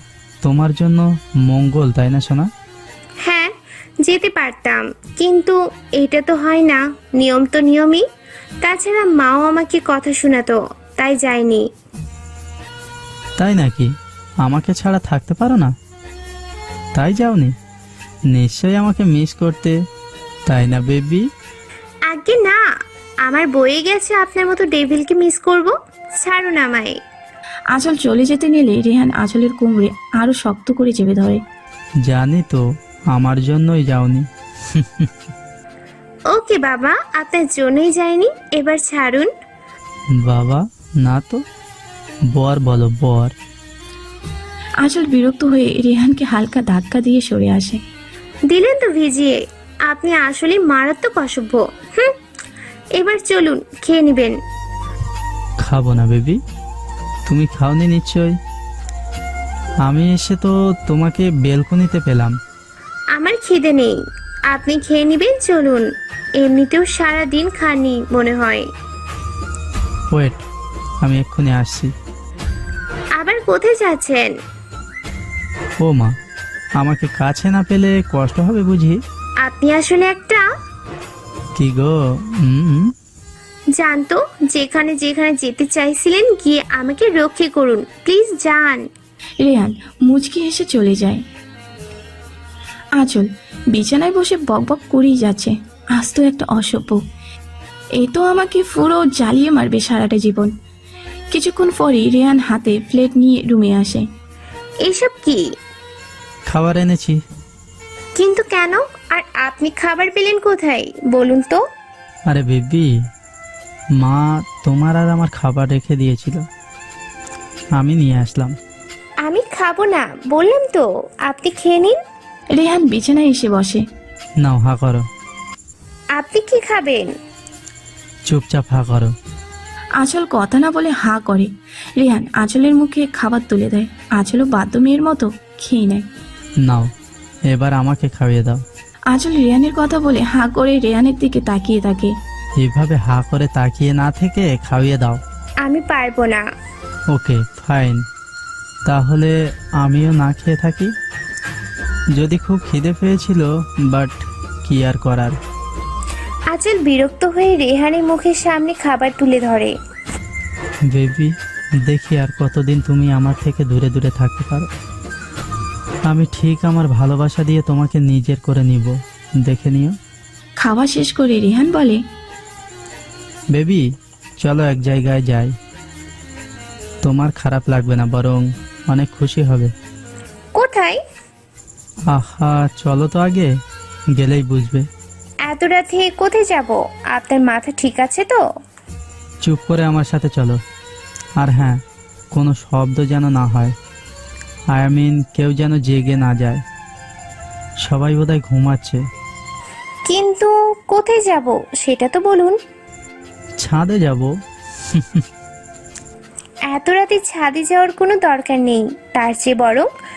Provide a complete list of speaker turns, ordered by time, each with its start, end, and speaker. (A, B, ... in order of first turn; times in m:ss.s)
0:00.4-0:02.5 A
0:03.2-0:03.5 B
0:04.0-0:08.0 B
0:08.6-0:11.7 B
0:13.4-0:13.9 A
0:14.4-0:15.7 A
0:17.0-0:17.6 A
0:18.3-0:19.8 A
0:20.5-0:21.3 A
0:22.1-0:22.6 B
0:23.2-0:27.0 B
0:27.7-0:31.4 C
0:32.0-0:35.1 A
0:36.3-0:39.3 B
0:40.2-0:41.4 A
0:42.3-0:43.4 A
0:44.8-0:47.8 C
0:48.5-0:52.2 B
0:53.0-0:54.4 B
0:55.6-0:56.4 A
0:57.3-0:58.4 A
0:59.8-1:02.4 A
1:03.2-1:05.9 B
1:06.4-1:08.7 B
1:10.1-1:10.4 A
1:11.0-1:11.9 A
1:13.2-1:14.3 B
1:15.8-1:16.2 A
1:16.8-1:19.0 A
1:19.4-1:20.4 B
1:21.6-1:22.9 A
1:23.8-1:28.9 B
1:29.4-1:31.2 C
1:33.0-1:37.0 C
1:38.0-1:40.5 C
1:41.3-1:44.1 C
1:44.8-1:45.5 B
1:46.5-1:47.2 A
1:48.2-1:51.6 B
1:52.3-1:52.9 A
1:54.0-1:56.4 A
1:57.8-1:58.6 A
1:59.2-2:02.0 B
2:02.5-2:03.8 C
2:04.4-2:05.1 A
2:06.2-2:07.1 B
2:08.3-2:09.1 A
2:10.0-2:16.1 C
2:16.6-2:16.9 A
2:17.5-2:18.6 A
2:19.1-2:22.2 C
2:22.6-2:25.2 A
2:25.6-2:26.4 B
2:27.1-2:28.0 A
2:28.9-2:30.9 A
2:32.1-2:35.4 A
2:36.5-2:39.7 B
2:40.9-2:44.7 A
2:46.1-2:50.0 A
2:50.6-2:52.0 C
2:53.5-2:53.8 A
2:54.4-2:55.6 A
2:57.0-2:59.7 A
3:00.6-3:01.0 B
3:02.1-3:03.5 A
3:04.2-3:04.9 A
3:05.5-3:08.4 B
3:09.4-3:10.6 A
3:11.4-3:11.8 A
3:12.3-3:13.8 A
3:14.7-3:16.6 A
3:17.8-3:19.0 A
3:20.1-3:22.6 B
3:23.6-3:24.3 A
3:24.9-3:25.2 A
3:26.7-3:29.9 B